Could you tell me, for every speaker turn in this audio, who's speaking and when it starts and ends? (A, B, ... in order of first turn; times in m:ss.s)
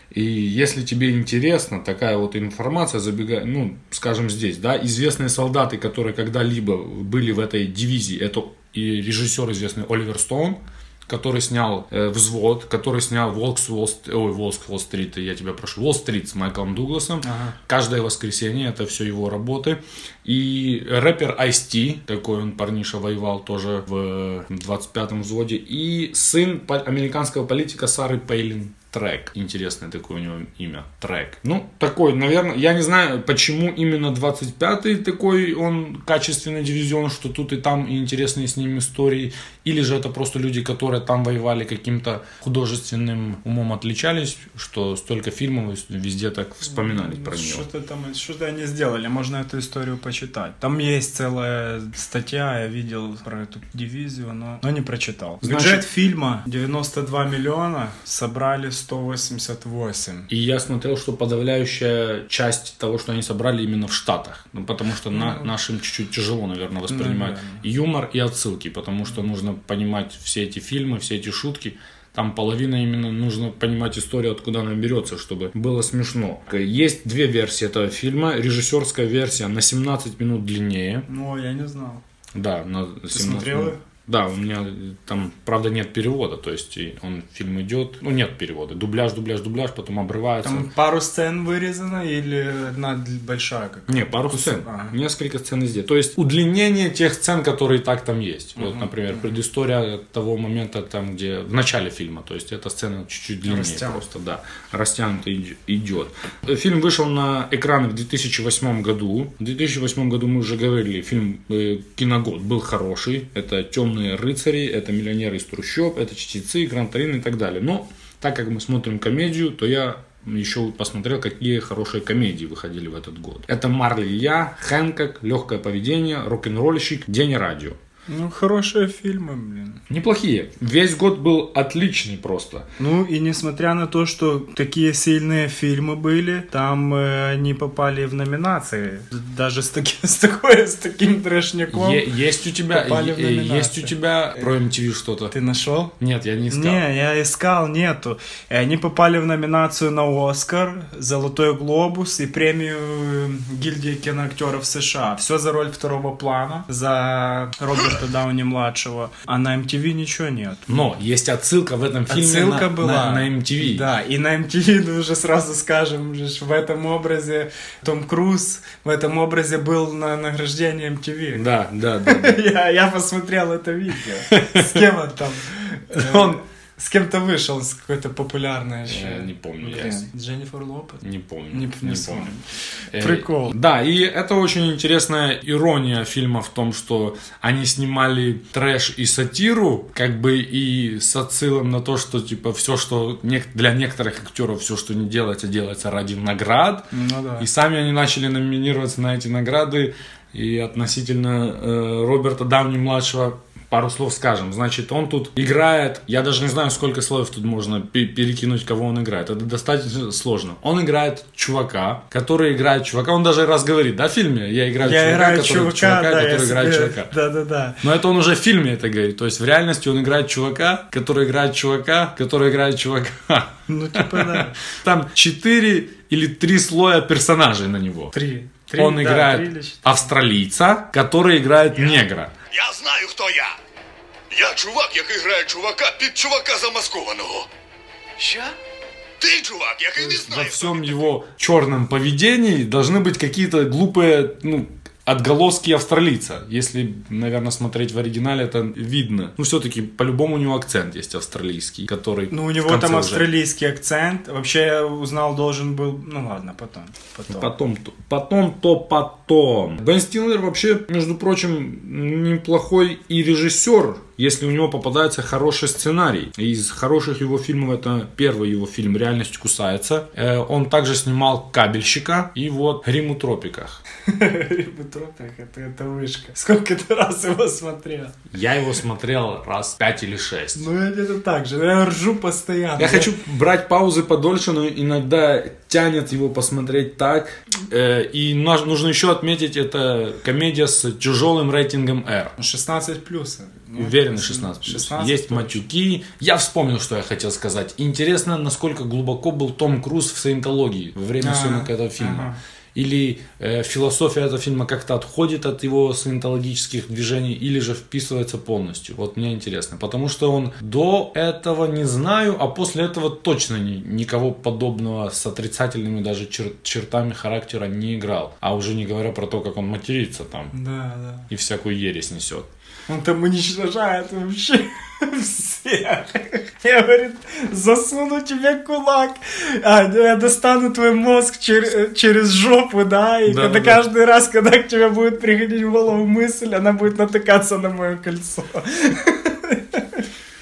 0:00.1-0:47.7 A
0:17.2-0:17.6 B
0:46.7-1:00.3 B
0:55.4-0:55.9 A
1:00.3-1:21.1 A
1:05.1-1:05.5 B
1:06.9-1:07.6 B
1:21.1-1:22.0 B
1:22.3-1:30.7 A
1:23.1-1:23.8 B
1:30.4-1:35.0 B
1:33.9-2:07.8 A
1:38.6-1:38.9 B
1:43.4-1:44.0 B
2:08.1-2:09.8 B
2:09.9-2:12.7 A
2:12.8-2:22.1 B
2:21.7-2:25.3 A
2:22.7-2:23.9 B
2:25.3-2:25.9 B
2:26.0-2:26.8 A
2:26.5-2:40.9 B
2:40.7-2:43.9 A
2:42.1-2:51.5 B
2:51.3-2:52.4 A
2:52.0-3:02.4 B
2:54.3-2:54.8 A
2:55.9-2:56.4 A
2:58.9-3:00.1 A
3:01.0-3:02.3 A
3:02.9-3:37.1 A
3:03.0-3:03.6 B
3:16.9-3:17.5 B
3:34.8-3:37.8 B
3:37.8-3:48.2 A
3:43.7-3:44.6 B
3:48.1-3:50.1 B
3:48.7-3:52.4 A
3:52.5-3:53.5 C
3:54.3-3:57.5 C
3:59.2-4:00.8 C
4:00.0-4:13.3 A
4:12.3-4:17.5 B
4:17.3-4:33.8 A
4:34.1-4:38.1 B
4:38.3-4:40.7 A
4:40.6-4:43.1 B
4:42.8-4:52.4 A
4:52.4-4:55.6 B
4:53.8-5:20.5 A
5:01.2-5:02.4 B
5:20.5-5:21.3 B
5:21.3-5:22.5 A
5:22.9-5:40.0 B
5:33.2-5:33.8 A